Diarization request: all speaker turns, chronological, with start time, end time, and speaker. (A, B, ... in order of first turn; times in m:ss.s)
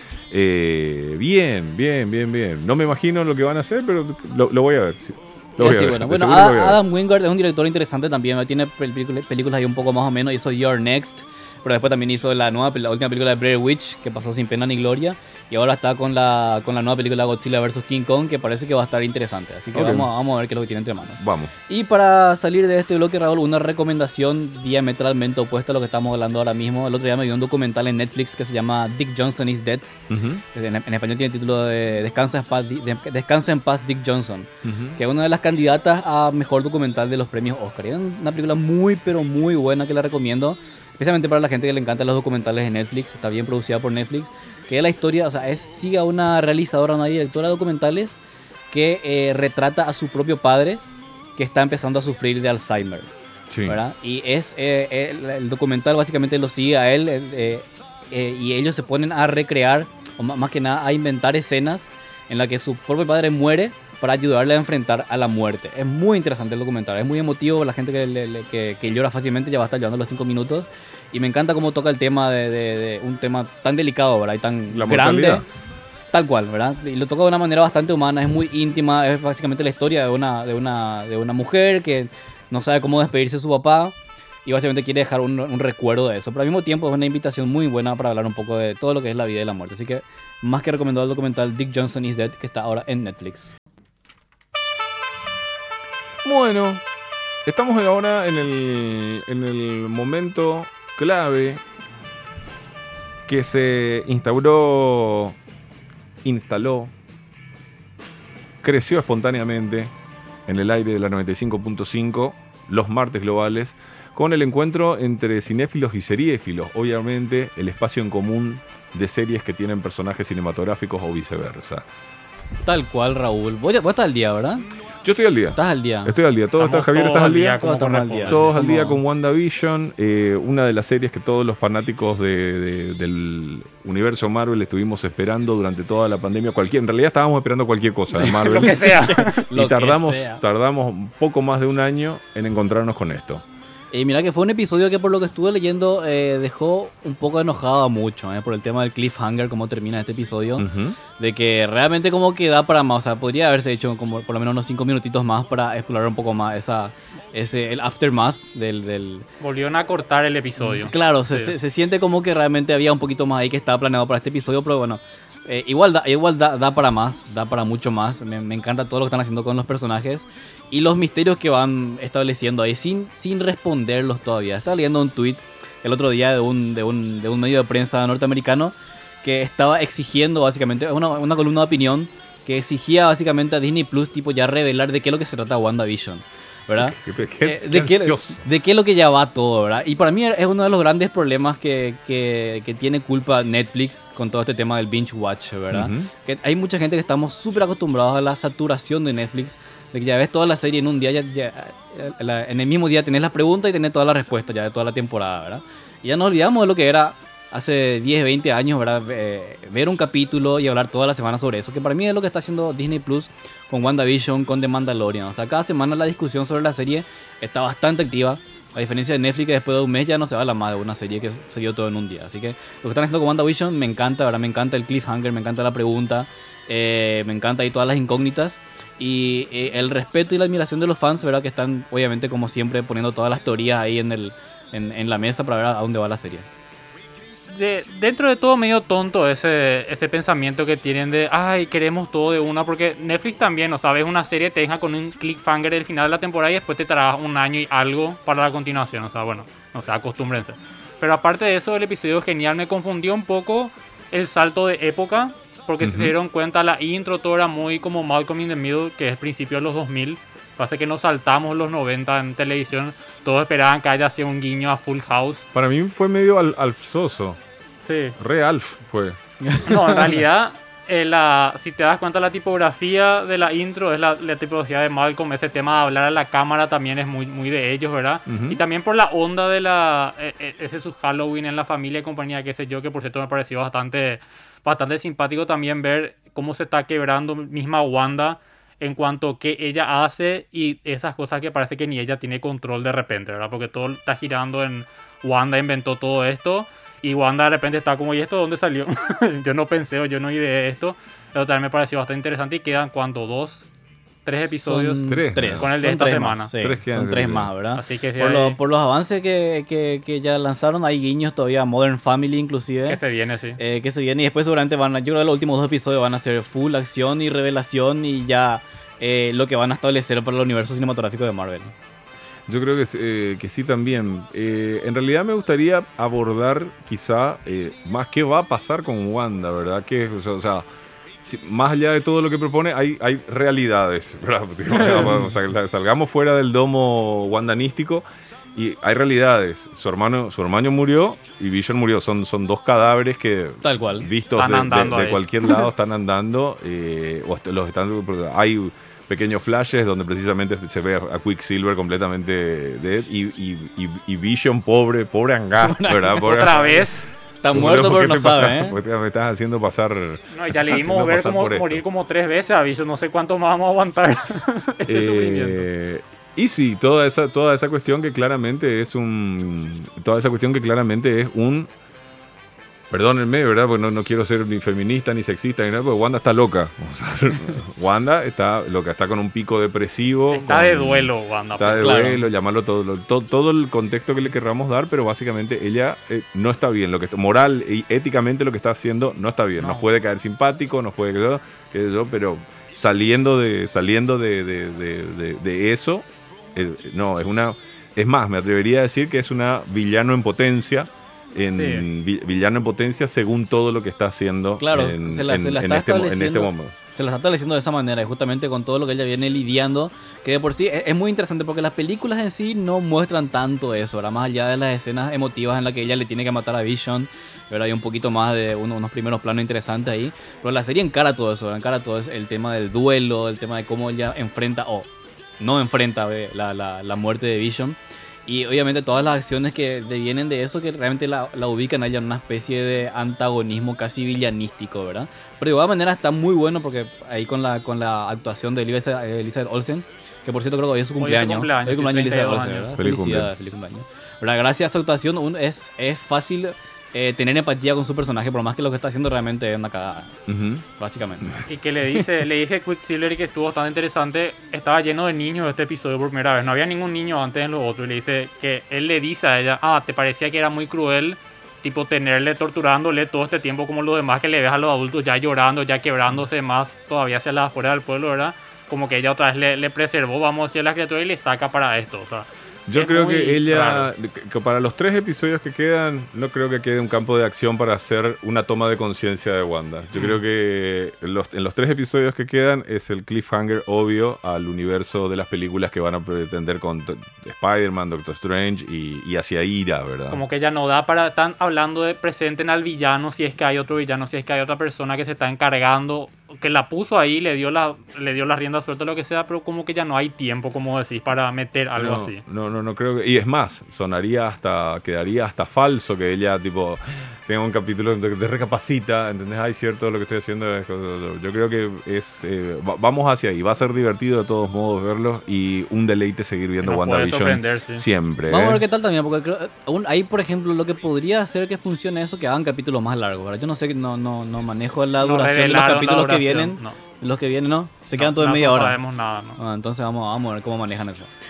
0:00.3-0:06.8 A
0:05.6-0:29.9 B
0:19.7-0:20.1 A
0:21.2-0:21.5 A
0:30.1-0:30.4 A
0:30.5-0:48.2 B
0:34.6-0:35.0 A
0:48.7-0:50.8 B
0:51.4-0:53.1 B
0:53.5-0:53.8 A
0:53.7-1:15.4 B
1:14.7-1:15.4 A
1:16.1-1:33.5 B
1:36.2-1:36.8 A
1:37.4-1:41.6 A
1:43.2-1:45.4 A
1:46.2-1:46.9 A
1:48.6-1:49.9 A
1:50.4-2:01.8 A
2:02.6-2:04.6 B
2:05.0-2:23.4 A
2:05.5-2:06.1 B
2:06.6-2:08.5 C
2:07.6-2:09.0 B
2:18.1-2:20.4 B
2:18.3-2:19.4 C
2:23.9-2:30.7 B
2:30.6-2:31.0 A
2:31.2-2:39.2 B
2:39.4-2:41.5 C
2:40.6-3:56.5 B
3:06.8-3:08.4 A
3:15.7-3:16.1 A
3:57.5-4:25.4 C
4:15.8-4:16.1 A
4:25.5-4:27.4 A
4:27.8-4:28.2 C
4:28.2-4:29.2 A
4:29.4-4:30.2 B
4:29.6-5:03.7 C
4:38.3-4:38.6 A
5:04.2-5:06.5 C
5:04.6-5:13.0 B
5:05.1-5:05.7 A
5:06.6-5:07.5 A
5:07.8-5:08.6 C
5:12.9-5:13.6 C
5:13.6-5:21.7 B
5:22.5-5:30.6 A
5:31.2-5:38.0 A
5:34.7-5:35.3 B
5:38.5-5:56.8 A
5:43.6-5:44.1 B
5:44.4-5:45.2 C
5:55.6-5:56.8 B
5:56.2-5:57.1 C
5:57.4-5:58.8 B
5:57.5-6:01.8 A
6:00.3-6:05.6 C
6:04.8-6:11.7 A
6:12.9-6:46.7 A
6:20.3-6:22.1 C
6:21.7-6:22.2 B
6:41.5-6:41.8 C
6:44.6-7:04.9 B
7:05.4-7:30.2 B
7:21.0-7:22.8 C
7:22.8-7:23.3 A
7:30.3-7:30.6 A
7:30.8-7:31.4 B
7:31.2-7:31.5 A
7:31.5-7:53.9 C
7:52.7-8:10.2 A
8:10.1-8:22.2 C
8:21.7-8:38.6 A
8:36.6-8:37.8 C
8:38.3-8:48.8 B
8:45.0-8:46.8 C
8:48.0-8:49.4 C
8:49.4-8:51.1 B